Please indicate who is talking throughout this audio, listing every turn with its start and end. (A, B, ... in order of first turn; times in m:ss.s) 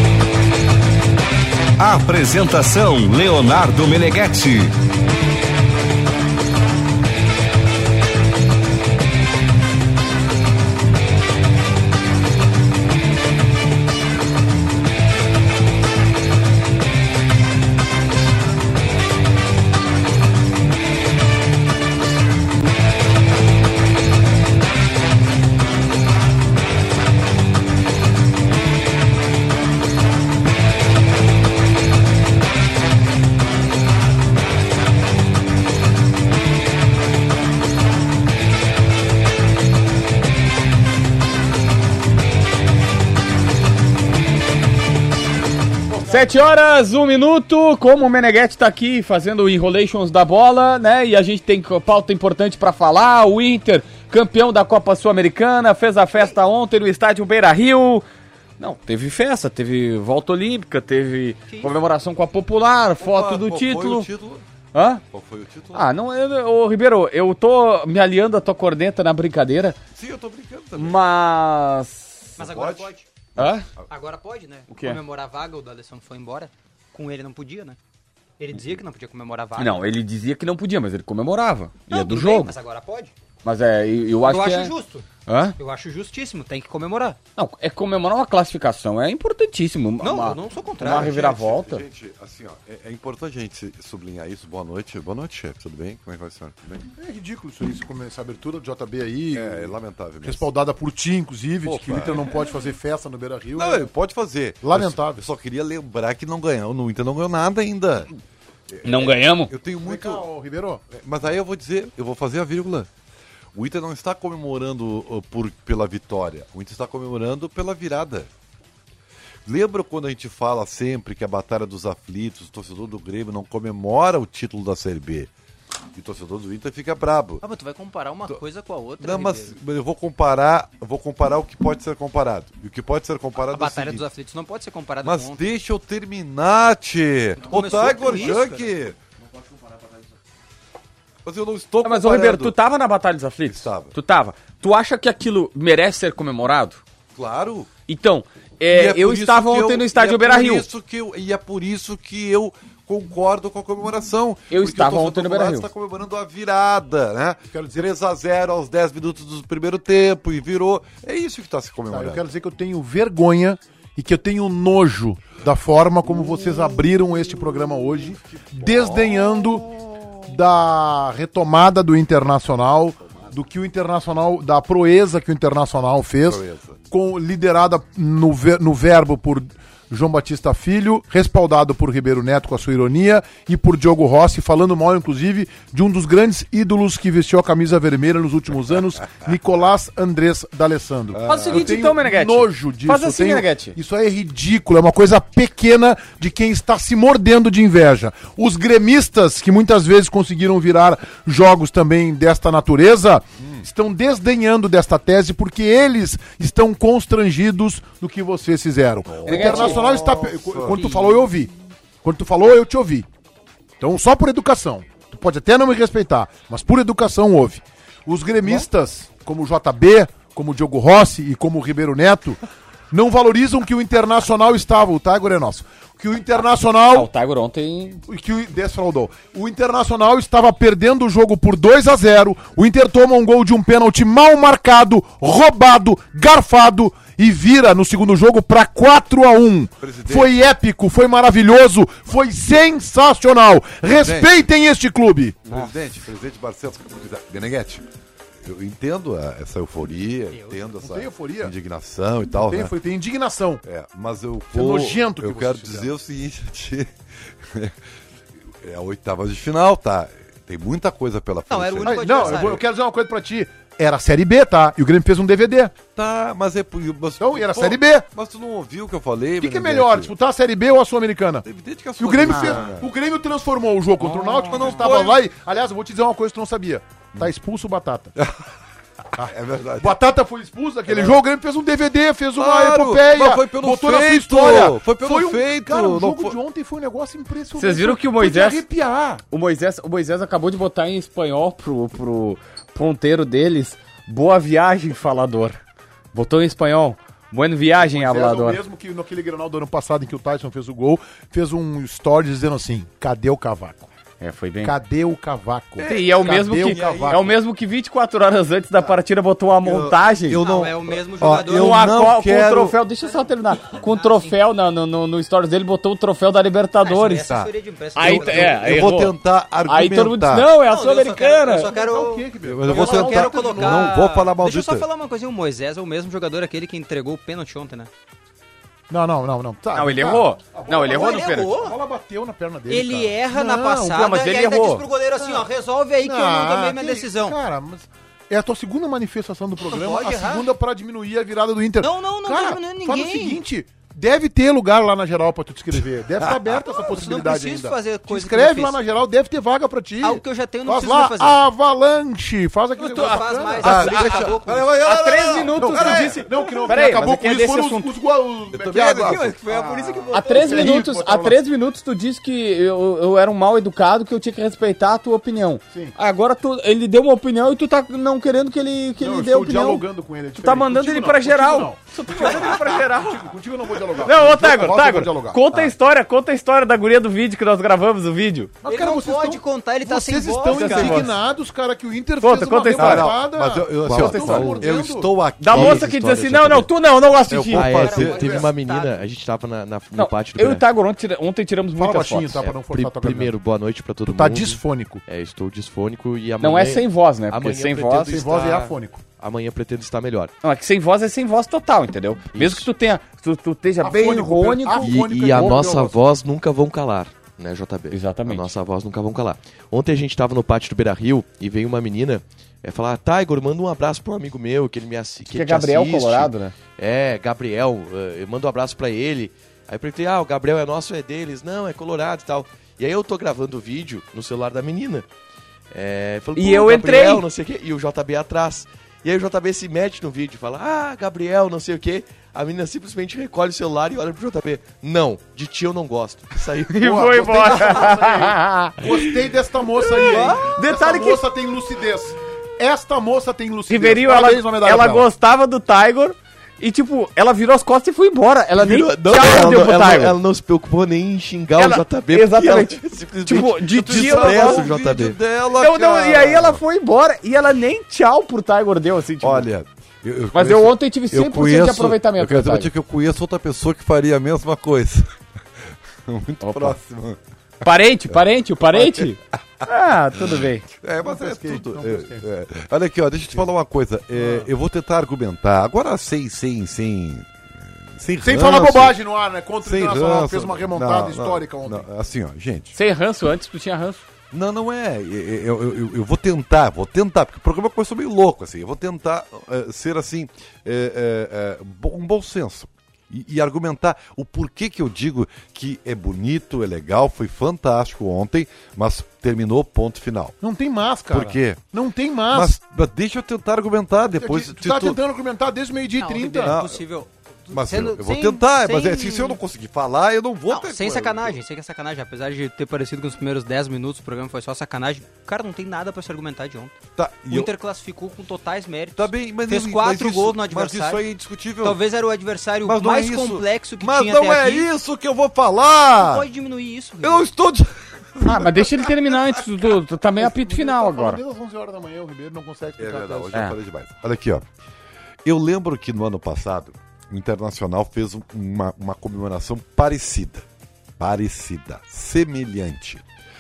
0:01.8-0:04.7 A
0:45.9-0:46.3 B
0:46.0-0:58.0 C
0:58.6-1:04.1 C
1:01.5-1:01.7 D
1:03.0-1:04.4 E
1:04.7-1:05.0 C
1:05.1-1:05.9 E
1:05.7-1:09.8 C
1:09.9-1:11.0 E
1:10.8-1:12.3 C
1:12.4-1:13.1 D
1:12.4-1:13.9 E
1:13.4-1:13.6 C
1:13.9-1:17.8 D
1:14.7-1:15.0 C
1:18.4-1:19.9 D
1:19.6-1:22.6 C
1:21.9-1:23.1 D
1:23.4-1:24.7 C
1:24.2-1:27.2 D
1:25.3-1:25.6 C
1:27.4-1:31.8 C
1:30.0-1:31.2 D
1:30.8-1:36.8 E
1:37.0-1:39.7 B
1:39.3-1:40.5 E
1:40.2-1:43.9 B
1:41.6-1:42.4 E
1:43.6-1:48.1 E
1:44.6-1:45.2 B
1:48.7-1:50.3 E
1:48.8-1:49.5 C
1:49.8-1:50.8 B
1:50.9-1:52.9 E
1:53.5-1:58.3 E
1:59.4-2:05.3 E
2:05.9-2:07.4 E
2:07.4-2:09.6 D
2:09.0-2:14.1 E
2:13.4-2:15.5 D
2:15.0-2:19.0 E
2:17.4-2:18.7 D
2:21.2-2:22.6 E
2:21.8-2:26.8 C
2:23.5-2:23.9 E
2:27.2-2:27.7 E
2:27.9-2:30.7 C
2:28.7-2:42.2 E
2:34.5-2:35.7 C
2:37.5-2:37.9 B
2:41.9-2:49.7 B
2:46.0-2:50.3 E
2:50.3-3:31.5 B
2:53.0-2:53.3 E
2:56.2-2:56.8 E
3:11.1-3:11.9 E
3:11.3-3:13.8 C
3:23.4-3:23.7 E
3:29.1-3:31.2 E
3:29.3-3:30.0 C
3:32.0-3:33.1 B
3:33.8-3:42.4 B
3:42.9-3:47.1 B
3:46.9-3:48.0 C
3:48.1-4:05.5 B
3:59.8-4:00.4 E
4:03.9-4:04.3 E
4:05.5-4:07.8 E
4:08.4-4:12.7 E
4:10.3-4:10.6 D
4:10.8-4:11.5 B
4:12.4-4:13.6 B
4:13.6-4:16.9 E
4:14.5-4:15.9 B
4:17.4-4:17.8 E
4:18.5-4:22.5 E
4:21.5-4:22.6 D
4:21.8-4:25.7 B
4:26.0-4:30.1 E
4:27.2-4:28.1 B
4:29.4-4:31.5 B
4:31.4-4:32.9 E
4:32.0-4:38.2 B
4:34.0-4:35.2 E
4:39.2-4:49.2 B
4:39.2-4:40.0 E
4:40.9-4:41.2 E
4:42.4-4:46.4 E
4:47.6-4:48.6 C
4:49.3-4:55.6 C
4:56.1-4:58.6 C
4:57.8-5:03.9 B
5:04.2-5:04.8 C
5:04.6-5:07.3 B
5:05.8-5:07.4 E
5:05.8-5:10.4 C
5:09.6-5:12.8 E
5:10.4-5:11.8 D
5:11.5-5:17.3 C
5:13.1-5:14.4 D
5:16.8-5:18.8 D
5:17.3-5:20.5 E
5:18.0-5:21.7 C
5:20.6-5:27.9 D
5:21.6-5:24.0 B
5:22.4-5:24.9 E
5:28.9-5:35.5 B
5:29.7-5:31.5 C
5:30.8-5:31.8 D
5:32.7-5:37.4 D
5:34.0-5:34.8 C
5:36.0-5:54.3 B
5:39.7-5:40.5 D
5:41.8-5:43.4 D
5:46.7-5:48.8 D
5:50.0-5:51.4 D
5:52.8-5:54.7 D
5:52.9-5:54.3 C
5:53.6-5:56.5 E
5:54.8-5:57.9 C
5:55.5-6:01.4 B
5:58.5-5:59.7 E
5:59.0-6:00.7 D
6:00.2-6:09.8 C
6:09.0-6:15.4 B
6:10.4-6:13.3 C
6:14.0-6:18.5 C
6:18.6-6:25.1 B
6:18.6-6:21.1 D
6:20.5-6:21.1 C
6:22.2-6:23.1 C
6:22.8-6:25.8 E
6:23.8-6:24.7 F
6:24.0-6:24.6 C
6:25.4-6:27.7 C
6:25.5-6:26.7 F
6:27.3-6:28.2 E
6:27.5-6:30.6 F
6:27.8-6:29.0 D
6:27.9-6:28.5 B
6:30.0-6:32.4 C
6:31.8-6:33.3 B
6:32.4-6:40.3 F
6:34.0-6:35.0 B
6:36.4-6:38.2 C
6:38.0-6:39.0 B
6:40.4-6:45.6 C
6:42.3-6:42.7 F
6:43.8-6:46.0 B
6:44.8-7:05.1 F
6:47.9-6:48.5 C
6:55.3-6:56.5 C
7:05.7-7:18.0 F
7:06.4-7:07.2 C
7:16.7-7:18.8 C
7:16.8-7:25.1 B
7:20.0-7:20.6 F
7:20.0-7:21.2 C
7:23.7-7:30.2 C
7:28.6-7:35.2 F
7:31.6-7:34.7 C
7:33.8-7:36.6 E
7:35.6-7:39.5 C
7:39.2-7:45.1 E
7:40.3-7:42.7 C
7:46.1-7:47.2 E
7:46.4-7:46.8 C
7:47.6-7:50.6 C
7:48.1-7:59.0 E
7:51.0-7:52.2 B
7:54.2-7:54.5 B
7:58.2-8:01.9 B
7:59.6-8:02.8 E
8:02.7-8:04.0 C
8:04.3-8:20.4 E
8:20.4-8:22.5 B
8:21.1-8:21.6 E
8:22.3-8:25.0 E
8:24.2-8:26.6 B
8:26.0-8:29.4 D
8:26.4-8:26.8 E
8:27.5-8:31.4 E
8:30.5-8:36.7 D
8:37.0-8:37.5 E
8:37.3-8:41.0 D
8:39.0-8:41.8 E
8:41.6-8:44.7 D
8:42.6-8:46.3 E
8:46.0-8:47.3 D
8:47.0-8:49.4 E
8:48.2-8:51.2 C
8:50.2-8:53.4 B
8:52.8-8:54.5 E
8:55.2-9:00.5 E
9:01.0-9:03.0 E